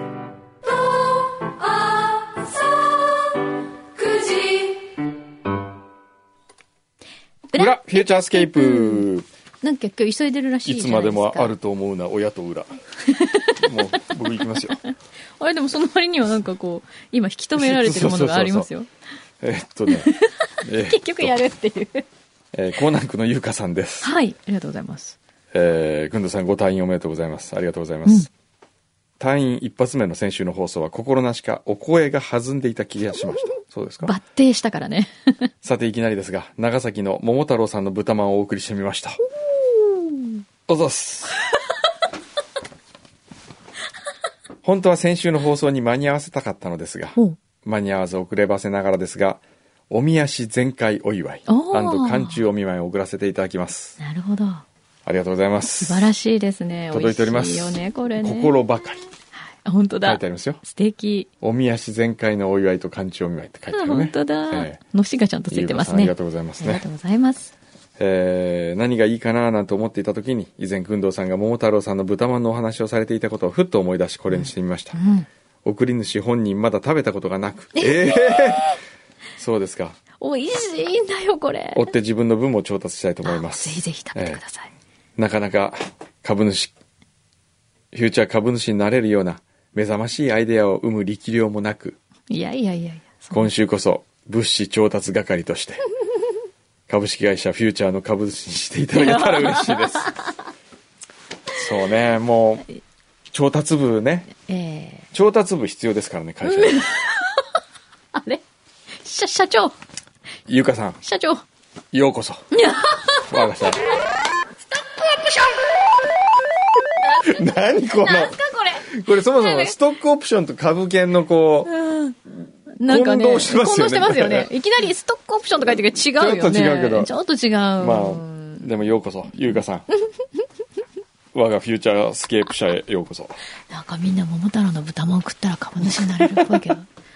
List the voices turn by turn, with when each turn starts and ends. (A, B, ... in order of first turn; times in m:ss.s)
0:00.8-0:03.2 A
0:04.0-0:04.9 A
0:07.5-0:09.0 A
0:07.5-0:09.3 B
0:09.6-0:11.5 A
0:10.6-0:12.8 B
0:13.1-0:14.0 A
0:13.5-0:14.8 B
0:14.9-0:18.9 A
0:17.6-0:18.7 B
0:19.4-0:21.4 B
0:19.9-0:22.0 A
0:22.5-0:24.1 B
0:24.0-0:25.2 A
0:25.5-0:28.3 B
0:29.2-0:34.1 B
0:34.0-0:35.5 A
0:35.6-0:39.2 B
0:39.6-0:40.4 A
0:40.7-0:41.4 B
0:44.6-0:54.0 B
0:51.5-0:52.4 A
0:54.0-0:54.6 A
0:55.0-0:56.1 B
0:55.8-0:58.6 A
0:56.9-0:59.0 B
0:59.4-1:01.3 A
1:00.0-1:00.6 B
1:01.4-1:04.8 B
1:03.7-1:07.5 A
1:05.5-1:06.8 B
1:08.0-1:15.0 B
1:14.3-1:15.3 A
1:15.6-1:18.8 B
1:17.7-1:18.2 A
1:19.4-1:20.0 B
1:20.2-1:21.9 A
1:21.7-1:24.4 B
1:23.2-1:24.7 A
1:25.2-1:26.7 B
1:27.9-1:32.0 B
1:32.3-1:33.5 A
1:33.3-1:35.8 B
1:36.9-1:40.1 B
1:38.9-1:40.3 A
1:41.5-1:42.6 B
1:43.3-1:44.3 B
1:44.3-1:45.1 A
1:45.1-1:46.9 B
1:46.4-1:47.5 A
1:48.1-1:48.4 A
1:49.0-1:49.7 A
1:50.5-1:51.0 B
1:51.0-1:51.4 A
1:51.9-1:52.4 B
1:52.5-1:53.4 A
1:53.3-1:53.8 B
1:54.7-1:55.9 A
1:57.0-1:59.8 A
1:57.2-2:01.7 B
2:01.6-2:02.2 A
2:02.8-2:08.7 A
2:02.9-2:04.5 B
2:06.2-2:07.1 B
2:07.8-2:09.9 B
2:11.3-2:13.4 B
2:13.7-2:16.9 A